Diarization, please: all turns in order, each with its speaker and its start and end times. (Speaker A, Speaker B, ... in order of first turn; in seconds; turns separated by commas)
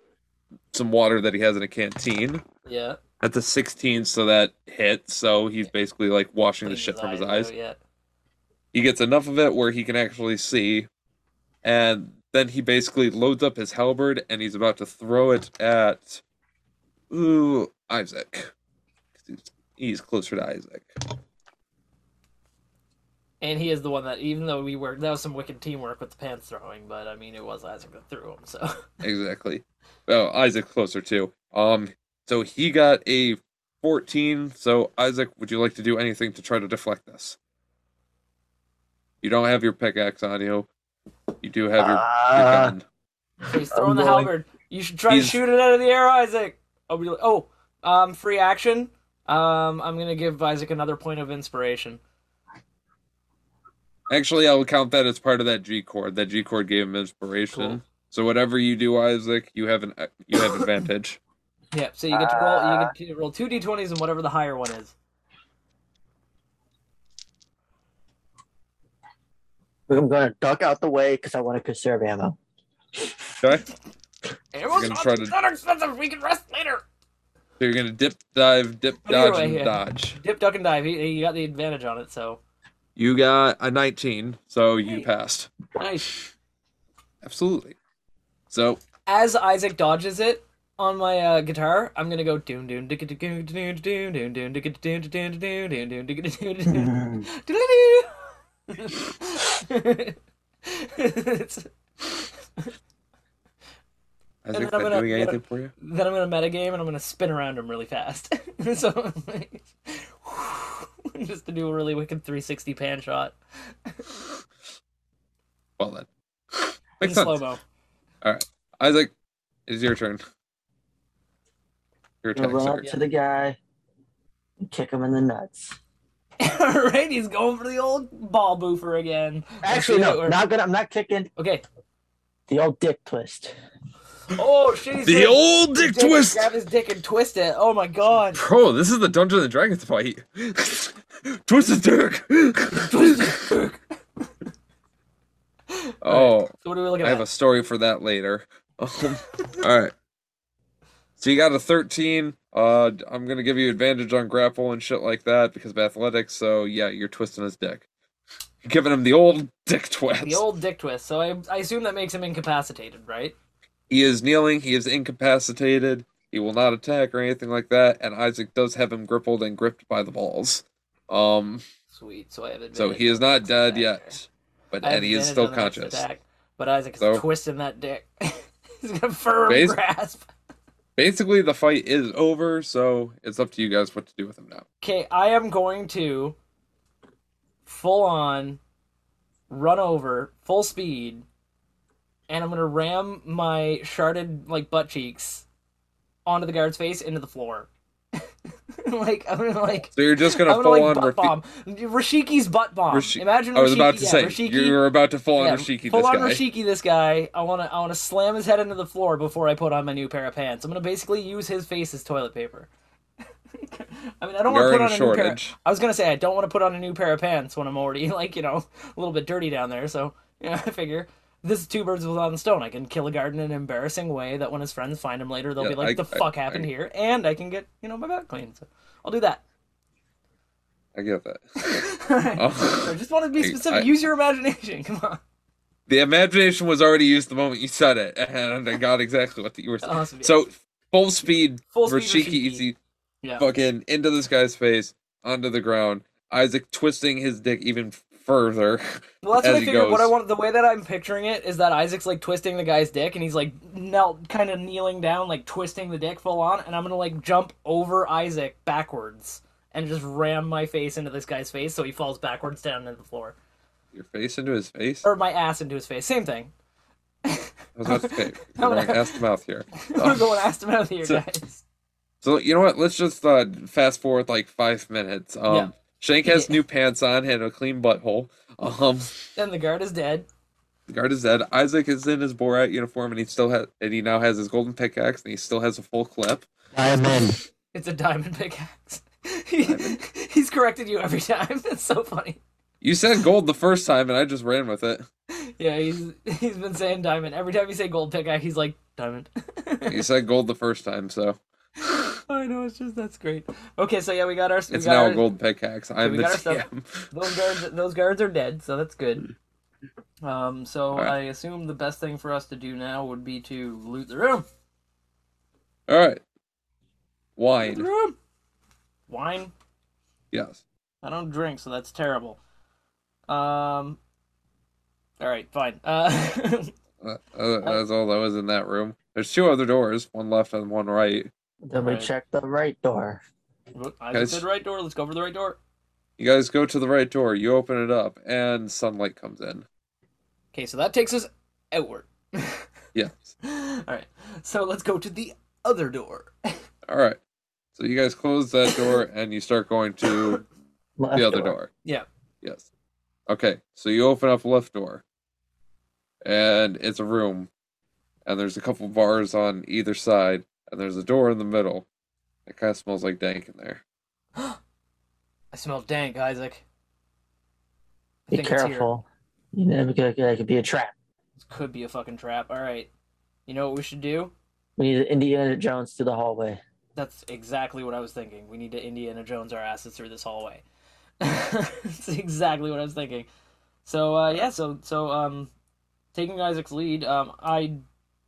Speaker A: 0.7-2.4, Speaker B: 2.6-3.0, Speaker A: 3.2-7.5, Speaker B: 6.7-7.8, Speaker A: 8.7-10.9, Speaker A: 11.6-16.2, Speaker A: 17.1-18.5, Speaker A: 19.2-20.9, Speaker B: 23.4-28.8, Speaker A: 29.0-37.4, Speaker A: 39.2-40.7, Speaker A: 41.4-42.9, Speaker C: 41.8-42.7, Speaker B: 43.5-52.0, Speaker C: 43.7-44.3, Speaker A: 45.1-45.4, Speaker A: 54.1-61.2, Speaker B: 61.7-64.9, Speaker C: 62.1-62.9, Speaker C: 69.9-72.4, Speaker A: 73.4-73.7, Speaker B: 74.5-76.8, Speaker A: 74.7-75.3, Speaker A: 77.6-80.2, Speaker B: 79.0-82.4, Speaker A: 83.0-85.5, Speaker B: 85.8-86.2, Speaker A: 87.2-87.8, Speaker A: 88.5-88.8, Speaker B: 89.1-102.7, Speaker C: 96.7-97.3, Speaker A: 104.5-105.7, Speaker B: 104.5-113.3, Speaker A: 115.8-117.4, Speaker B: 117.0-117.6, Speaker A: 118.2-119.1, Speaker A: 119.7-120.2, Speaker A: 122.2-122.9, Speaker C: 122.4-123.6, Speaker C: 124.6-125.8, Speaker B: 126.4-130.4, Speaker C: 129.6-131.3, Speaker B: 131.4-131.6, Speaker C: 132.5-133.6, Speaker B: 134.3-138.4, Speaker A: 135.1-136.5, Speaker A: 138.4-143.2, Speaker B: 142.7-143.8, Speaker B: 145.7-147.3, Speaker A: 146.0-149.9, Speaker A: 151.2-157.9, Speaker A: 158.7-160.4, Speaker B: 160.2-163.3, Speaker A: 163.9-171.6, Speaker B: 171.9-174.2, Speaker A: 172.8-176.0, Speaker B: 174.8-180.3, Speaker A: 179.5-179.8, Speaker A: 181.0-184.7, Speaker B: 184.8-186.4, Speaker B: 187.7-188.6, Speaker B: 189.5-191.2, Speaker B: 192.3-195.5, Speaker B: 196.3-197.7, Speaker B: 198.8-204.8, Speaker A: 199.9-201.4, Speaker A: 202.9-206.4, Speaker B: 205.4-212.7, Speaker B: 213.6-229.4, Speaker A: 214.5-215.6, Speaker A: 225.6-226.7, Speaker A: 230.9-231.8, Speaker B: 231.6-235.2, Speaker A: 232.4-233.9, Speaker A: 235.9-242.8, Speaker B: 239.8-240.4, Speaker B: 241.7-242.7, Speaker B: 243.2-243.5, Speaker A: 243.4-250.1, Speaker B: 249.2-263.4, Speaker A: 263.9-265.1, Speaker B: 265.0-266.5, Speaker B: 267.2-269.2, Speaker A: 267.8-270.2, Speaker B: 269.8-271.6, Speaker A: 272.2-279.2, Speaker B: 275.5-275.7, Speaker B: 276.2-276.6, Speaker B: 279.4-280.3, Speaker A: 280.9-286.5, Speaker C: 286.7-287.4, Speaker B: 287.7-292.4, Speaker A: 289.6-290.0, Speaker A: 292.8-295.1, Speaker B: 295.5-300.0, Speaker A: 299.9-301.4, Speaker B: 301.9-305.3, Speaker A: 304.7-307.1, Speaker B: 306.0-309.3, Speaker B: 310.2-314.5, Speaker A: 315.9-316.2, Speaker A: 317.4-317.9, Speaker B: 317.6-318.2, Speaker B: 319.1-319.5, Speaker A: 320.3-320.6, Speaker B: 321.0-322.4, Speaker B: 323.3-324.0, Speaker B: 325.2-326.7, Speaker A: 327.0-331.3, Speaker C: 331.6-333.2, Speaker B: 331.8-332.1, Speaker B: 333.8-335.6, Speaker A: 334.1-334.4, Speaker A: 336.2-339.7, Speaker B: 340.5-342.7, Speaker A: 342.9-343.3, Speaker B: 343.4-346.6, Speaker A: 346.9-347.2, Speaker A: 347.8-350.4, Speaker C: 351.0-351.6, Speaker A: 351.1-351.7, Speaker A: 353.3-355.0, Speaker A: 356.2-357.5, Speaker A: 358.3-361.9, Speaker A: 362.5-363.8, Speaker B: 365.5-366.6, Speaker B: 368.3-368.9, Speaker C: 368.3-370.9, Speaker B: 371.4-372.9, Speaker B: 373.5-374.3, Speaker C: 374.8-376.6, Speaker B: 377.0-380.6, Speaker B: 381.2-383.3, Speaker B: 383.9-385.5, Speaker B: 386.1-387.8